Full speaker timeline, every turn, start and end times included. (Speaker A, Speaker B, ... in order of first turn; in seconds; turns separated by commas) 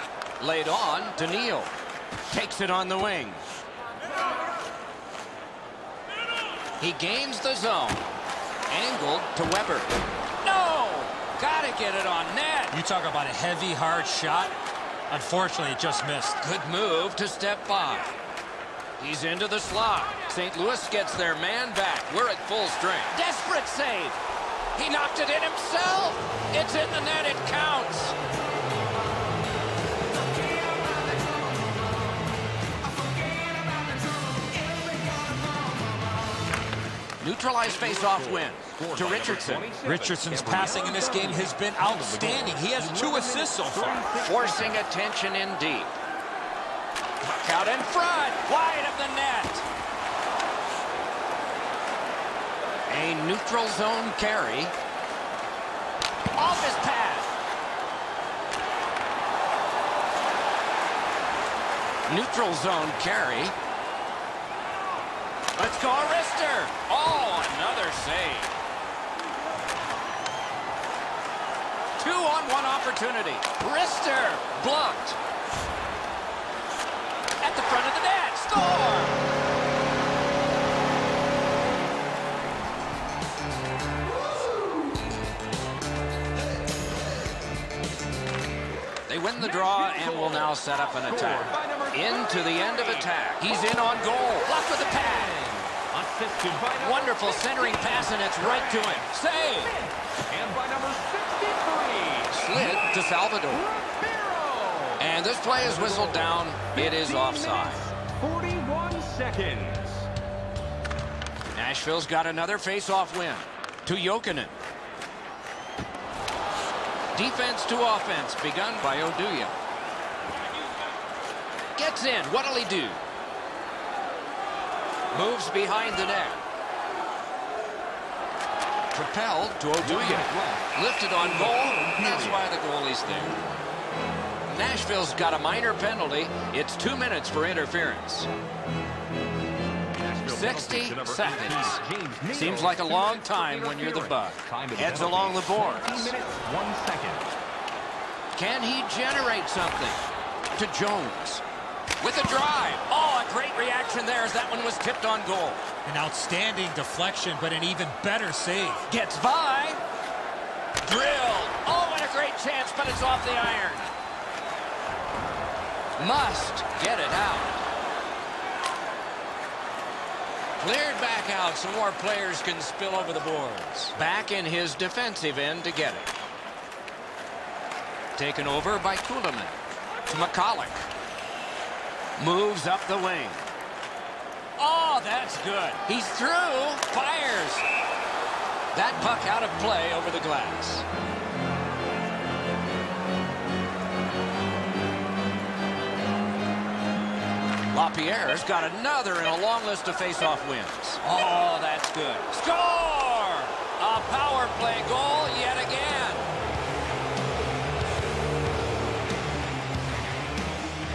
Speaker A: 0.4-1.7, Speaker A: 2.3-3.4, Speaker A: 6.8-8.1, Speaker A: 8.7-12.8, Speaker B: 12.7-14.5, Speaker B: 15.1-16.4, Speaker A: 16.4-18.2, Speaker A: 19.0-24.2, Speaker A: 24.8-28.2, Speaker A: 37.2-39.7, Speaker C: 37.6-44.8, Speaker B: 39.9-44.0, Speaker A: 44.2-46.0, Speaker A: 47.2-49.6, Speaker A: 52.9-54.7, Speaker A: 56.4-57.4, Speaker A: 62.1-63.5, Speaker A: 65.6-68.6, Speaker A: 72.0-75.2, Speaker A: 77.4-79.2, Speaker A: 89.1-95.4, Speaker C: 89.4-93.2, Speaker C: 94.4-110.1, Speaker A: 96.8-99.8, Speaker A: 102.3-103.7, Speaker A: 105.0-107.8, Speaker A: 111.5-114.5, Speaker A: 117.1-119.5, Speaker A: 121.8-123.0, Speaker A: 125.1-126.4, Speaker A: 128.9-133.4, Speaker C: 129.8-132.4, Speaker A: 134.5-138.3, Speaker C: 140.0-147.3, Speaker A: 140.3-146.1, Speaker A: 148.3-150.0, Speaker A: 150.6-151.4, Speaker A: 152.0-155.7, Speaker B: 155.9-158.8, Speaker A: 158.9-159.8, Speaker A: 160.8-163.9, Speaker A: 166.0-167.6, Speaker A: 170.6-176.1, Speaker A: 178.2-179.6, Speaker A: 180.1-180.8, Speaker A: 182.2-183.5, Speaker A: 184.6-187.7, Speaker A: 188.7-190.9, Speaker A: 197.7-206.3